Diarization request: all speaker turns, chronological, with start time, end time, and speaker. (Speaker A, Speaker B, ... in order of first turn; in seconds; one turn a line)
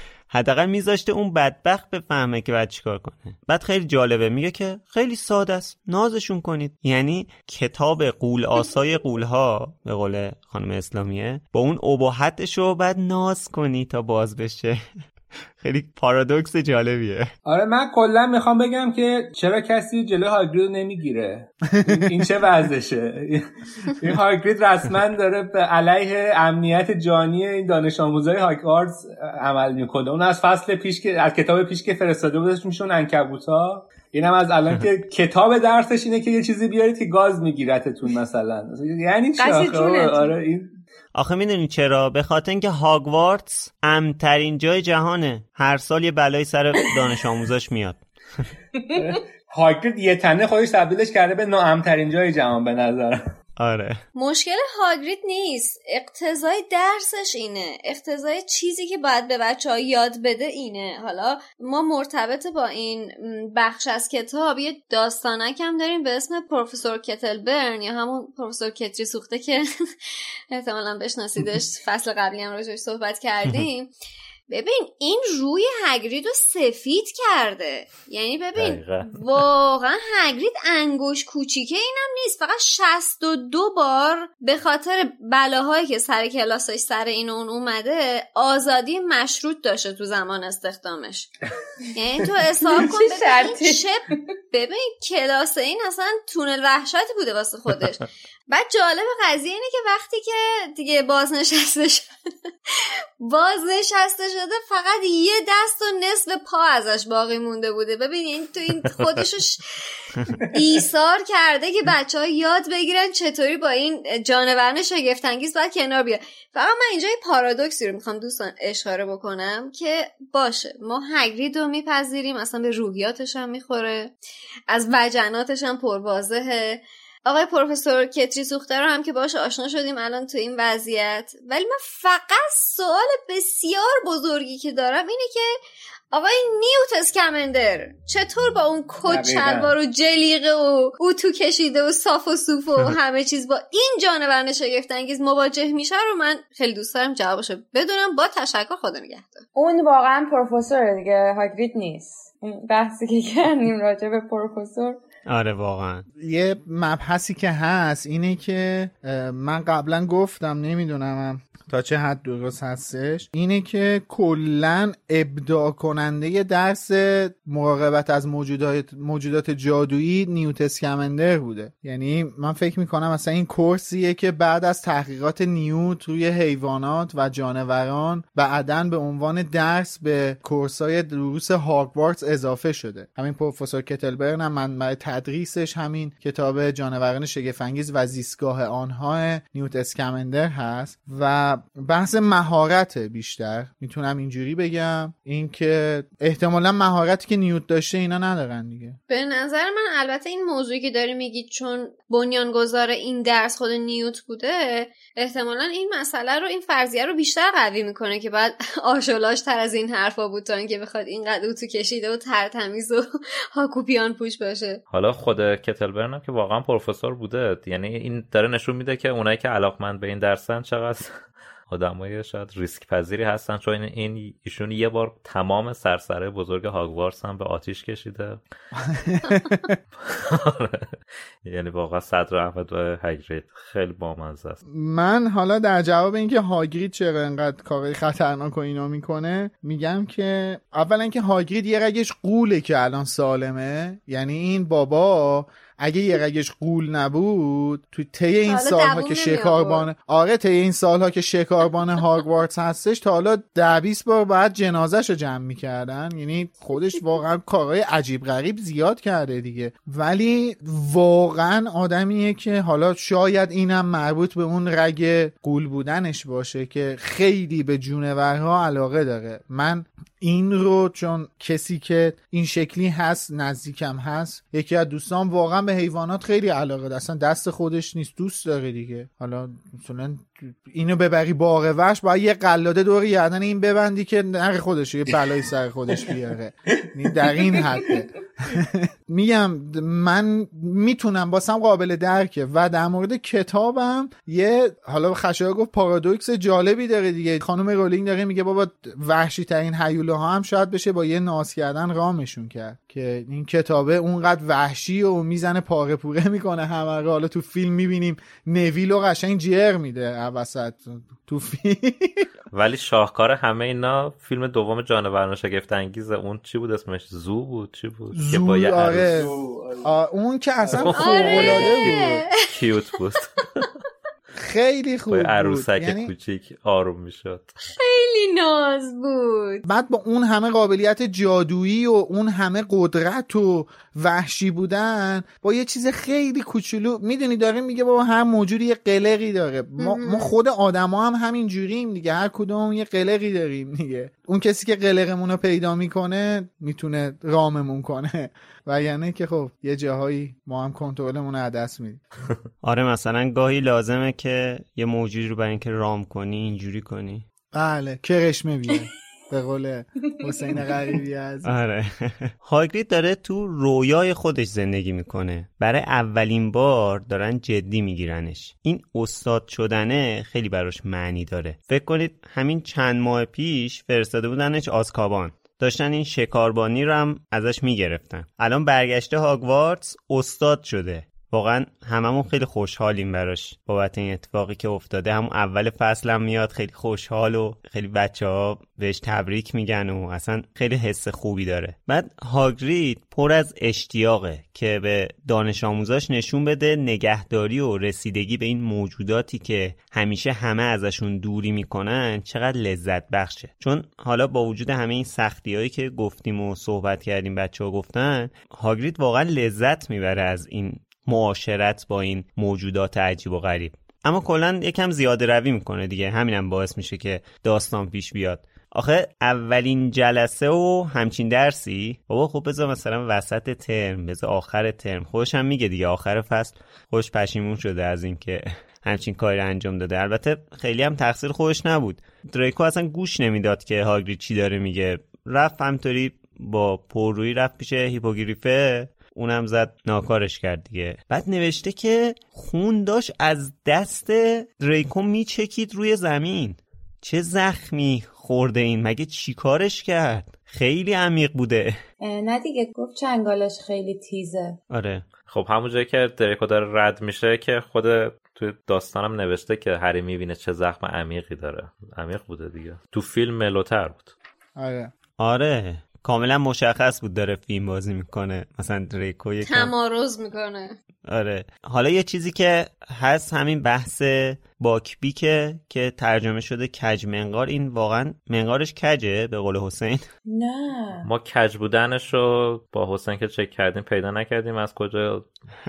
Speaker A: 0.3-14.9
Speaker A: 15.6-17.3
Speaker B: 17.5-40.8
Speaker C: 21.8-22.1
Speaker D: 39.4-40.4
Speaker A: 41.1-48.4
Speaker B: 48.9-53.2
Speaker A: 53.6-54.0
Speaker E: 54.1-73.9
Speaker E: 74.5-91.3
Speaker F: 78.5-79.2
Speaker E: 92.0-94.0
Speaker D: 92.6-93.9
Speaker E: 94.5-102.1
Speaker E: 102.7-124.1
Speaker E: 124.7-135.5
Speaker E: 136.1-149.4
Speaker B: 139.1-139.7
Speaker D: 149.6-155.0
Speaker A: 155.3-156.1
Speaker C: 156.2-199.0
Speaker E: 199.1-214.8
Speaker F: 214.9-221.2
Speaker F: 221.7-228.4
Speaker C: 228.8-229.8
Speaker F: 230.0-234.6
Speaker C: 234.7-312.3
Speaker E: 248.5-249.9
Speaker F: 312.5-319.2
Speaker C: 318.1-322.2
Speaker B: 318.9-319.9
Speaker B: 320.6-321.7
Speaker F: 320.8-323.7
Speaker E: 320.9-322.8
Speaker C: 324.4-326.1
Speaker F: 325.1-327.5
Speaker E: 327.7-329.6
Speaker C: 329.7-352.0
Speaker E: 339.8-340.3
Speaker A: 352.6-357.2
Speaker C: 357.5-361.5
Speaker D: 360.2-360.7
Speaker A: 361.4-451.7
Speaker D: 452.0-454.6
Speaker A: 454.7-455.1
Speaker F: 455.3-464.1
Speaker C: 464.6-464.9
Speaker A: 465.2-469.7
Speaker E: 469.5-470.8
Speaker A: 471.1-480.1
Speaker D: 480.3-481.1
Speaker F: 481.0-485.3